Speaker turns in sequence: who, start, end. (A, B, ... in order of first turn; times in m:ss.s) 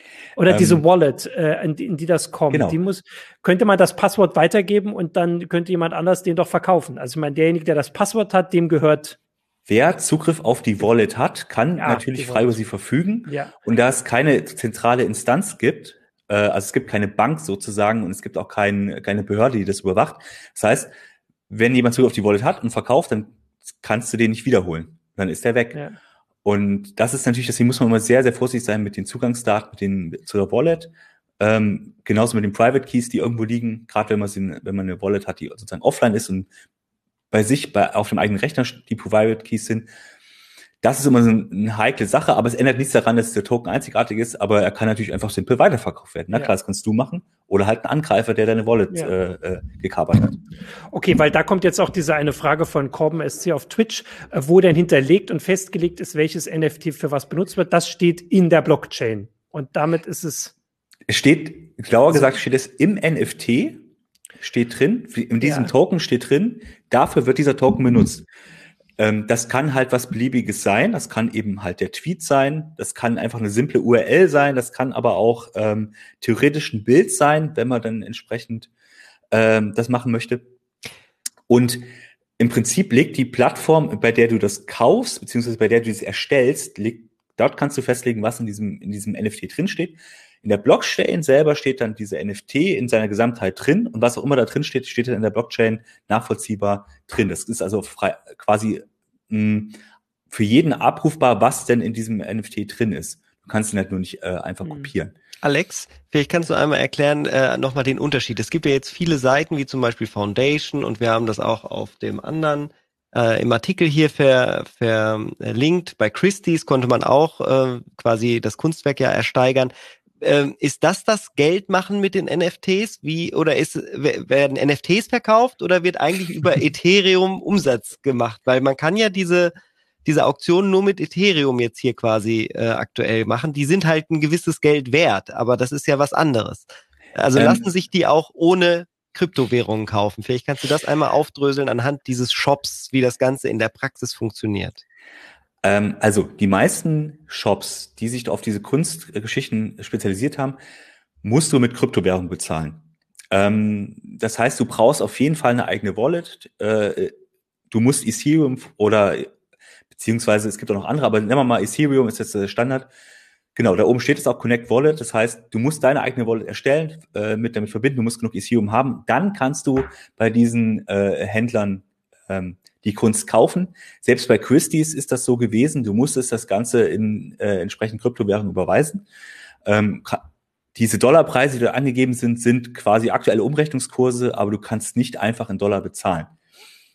0:00.4-0:09.2 A
0:00.4-0:00.8 B
0:02.5-0:02.8 B
0:09.7-0:20.9 B
0:11.8-0:12.6 A
0:13.3-0:13.5 A
0:21.5-0:25.8 B
0:26.4-0:36.5 B
0:37.3-0:39.9 B
0:40.8-0:50.4 B
0:50.9-1:00.5 A
1:01.1-1:03.9 B
1:04.4-1:08.2 B
1:05.4-1:05.7 A
1:09.0-1:18.7 B
1:19.3-1:20.5 B
1:21.5-1:21.8 B
1:22.4-1:39.8 B
1:40.3-1:45.1 B
1:44.6-1:44.9 A
1:45.4-2:09.5 C
2:10.0-2:24.8 C
2:17.3-2:17.6 B
2:25.6-2:30.6 B
2:31.2-2:37.1 B
2:37.7-2:39.3 B
2:39.9-2:42.9 B
2:43.5-2:59.0 B
2:59.6-3:06.3 B